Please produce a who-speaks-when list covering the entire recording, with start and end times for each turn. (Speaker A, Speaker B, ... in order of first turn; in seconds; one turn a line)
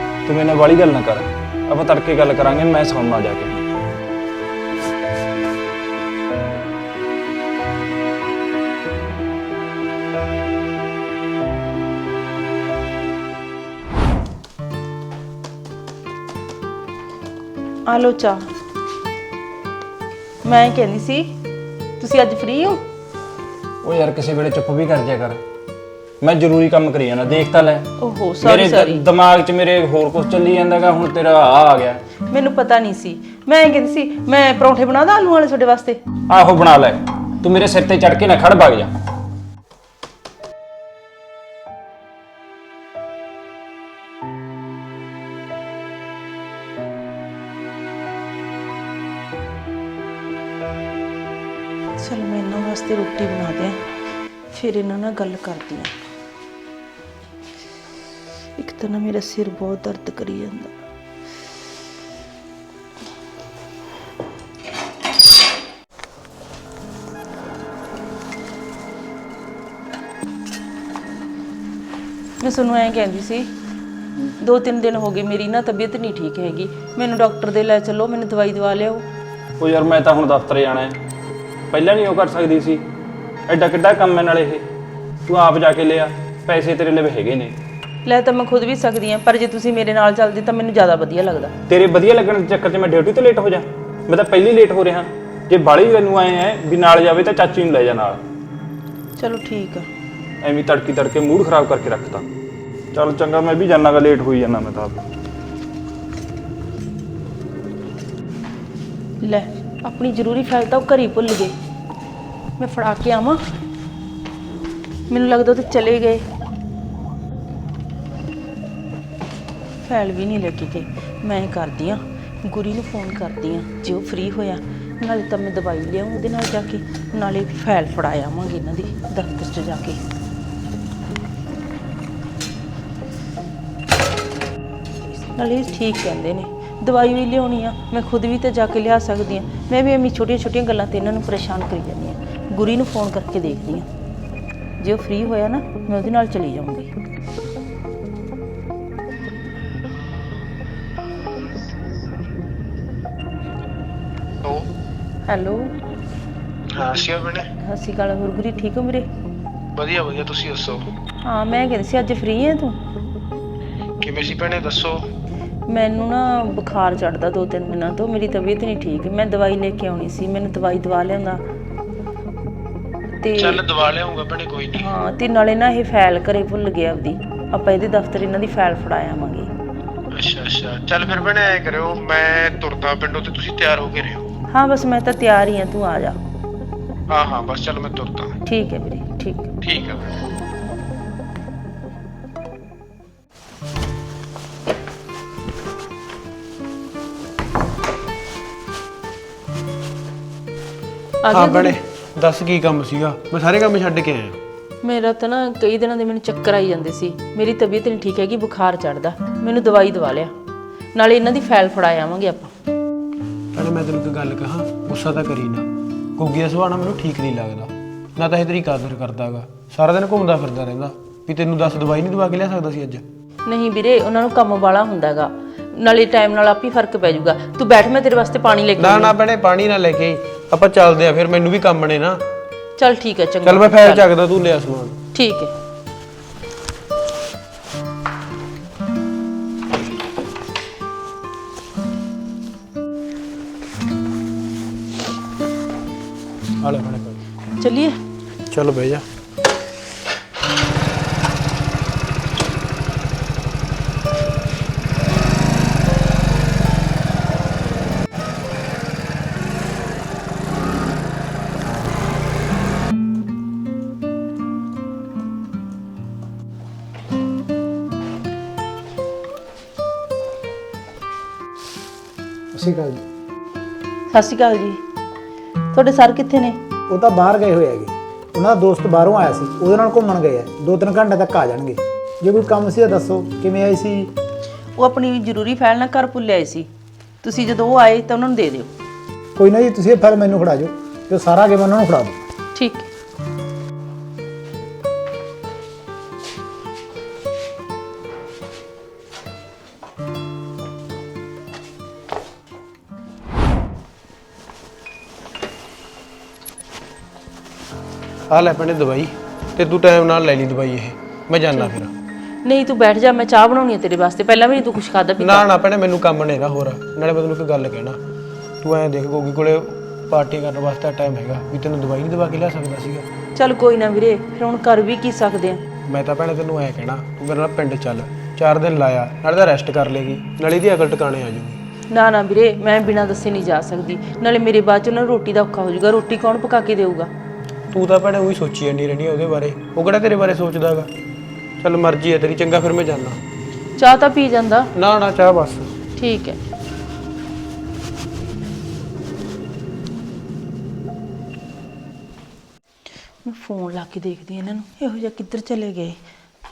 Speaker A: 0.2-3.6
Speaker B: 17.9-18.5
Speaker B: 20.4-21.3
Speaker B: 22.0-22.8
Speaker A: 23.8-25.4
Speaker A: 26.2-32.0
Speaker B: 28.0-29.0
Speaker B: 32.3-36.0
Speaker A: 36.3-38.9
Speaker B: 52.0-53.8
Speaker B: 54.5-55.9
Speaker B: 58.6-60.7
Speaker B: 72.4-73.5
Speaker B: 74.4-79.0
Speaker A: 79.6-81.0
Speaker A: 81.7-82.8
Speaker A: 83.5-84.7
Speaker A: 85.2-87.6
Speaker B: 88.0-91.5
Speaker A: 91.7-98.2
Speaker B: 99.2-99.9
Speaker A: 100.4-102.3
Speaker A: 102.9-105.0
Speaker B: 109.2-111.5
Speaker B: 112.6-113.4
Speaker B: 115.1-116.2
Speaker B: 119.8-130.0
Speaker B: 135.3-143.9
Speaker B: 144.8-146.9
Speaker C: 154.4-154.7
Speaker B: 155.3-155.7
Speaker C: 156.7-157.5
Speaker B: 157.6-159.1
Speaker C: 159.7-160.8
Speaker B: 161.2-162.8
Speaker C: 164.0-165.0
Speaker B: 165.7-171.4
Speaker B: 173.2-173.6
Speaker C: 173.3-174.9
Speaker B: 174.7-179.5
Speaker C: 180.1-184.2
Speaker B: 184.5-186.2
Speaker C: 187.1-188.3
Speaker B: 188.4-189.5
Speaker C: 189.6-190.1
Speaker B: 201.2-201.8
Speaker D: 201.3-204.4
Speaker B: 204.8-210.3
Speaker B: 210.9-212.5
Speaker D: 213.5-223.0
Speaker B: 223.4-229.1
Speaker D: 228.8-232.2
Speaker B: 232.8-234.1
Speaker D: 233.4-234.9
Speaker B: 235.1-235.5
Speaker D: 246.6-247.2
Speaker B: 247.6-248.0
Speaker D: 248.5-249.0
Speaker E: 272.5-273.0
Speaker B: 274.1-274.8
Speaker B: 275.7-276.6
Speaker E: 276.9-284.1
Speaker B: 284.8-286.7
Speaker B: 287.2-288.7
Speaker E: 289.4-292.2
Speaker B: 292.5-292.9
Speaker D: 308.3-311.9
Speaker B: 312.4-315.5
Speaker D: 315.2-318.0
Speaker D: 318.6-323.1
Speaker B: 323.4-325.6
Speaker D: 325.9-331.6
Speaker B: 331.9-337.1
Speaker D: 337.7-340.9
Speaker D: 341.6-343.2
Speaker B: 343.8-344.7
Speaker D: 344.7-345.7
Speaker B: 346.0-346.4
Speaker B: 353.2-356.0